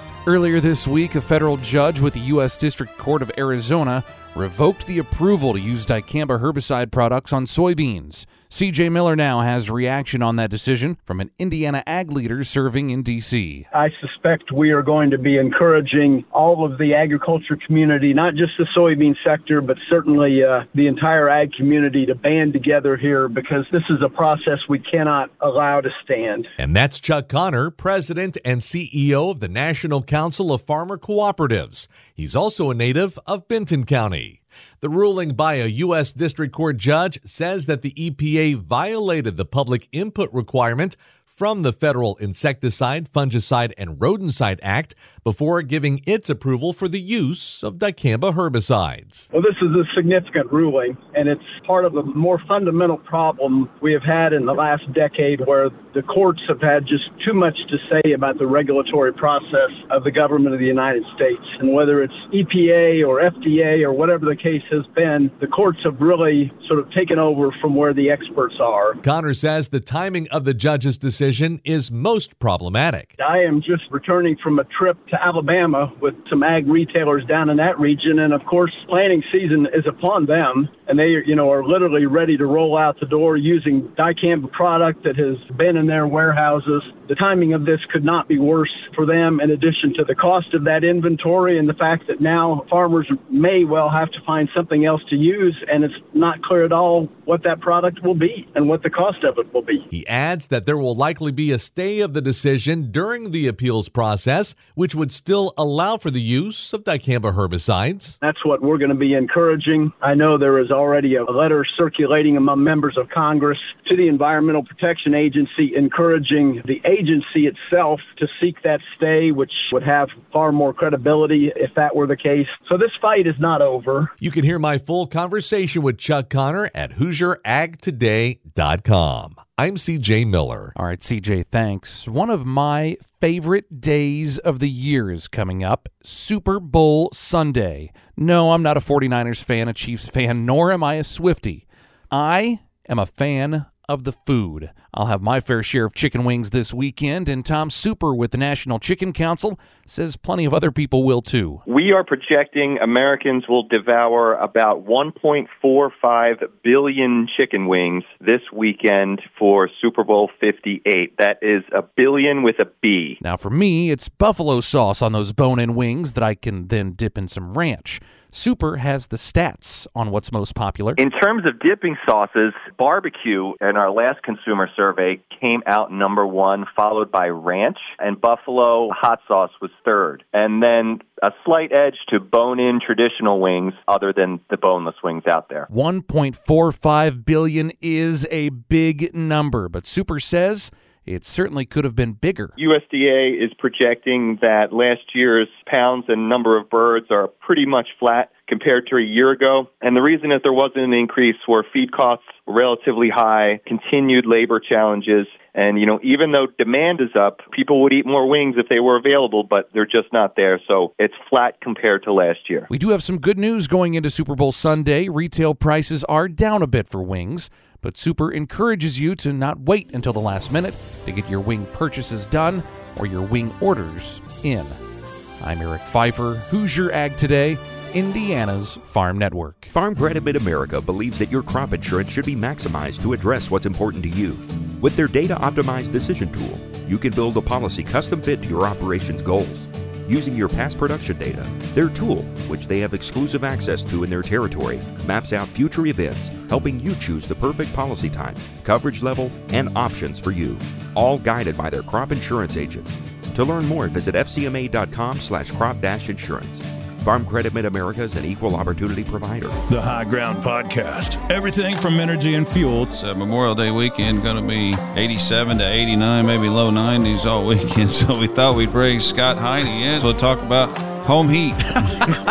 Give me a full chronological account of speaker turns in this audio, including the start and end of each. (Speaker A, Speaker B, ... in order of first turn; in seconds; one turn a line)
Speaker A: 0.3-13.7
Speaker B: 13.8-26.5
Speaker C: 26.6-49.3
Speaker B: 49.3-69.0
Speaker C: 69.0-73.1
Speaker B: 73.2-99.8
Speaker C: 99.9-108.2
Speaker B: 108.2-124.1
Speaker C: 124.2-130.7
Speaker A: 130.8-151.6
Speaker D: 151.7-163.2
Speaker A: 163.2-171.0
Speaker D: 171.0-185.7
Speaker A: 185.7-192.5
Speaker D: 192.6-212.7
Speaker A: 212.7-224.8
Speaker A: 225.4-229.7
Speaker E: 229.7-259.6
Speaker F: 259.7-262.9
Speaker G: 262.8-272.0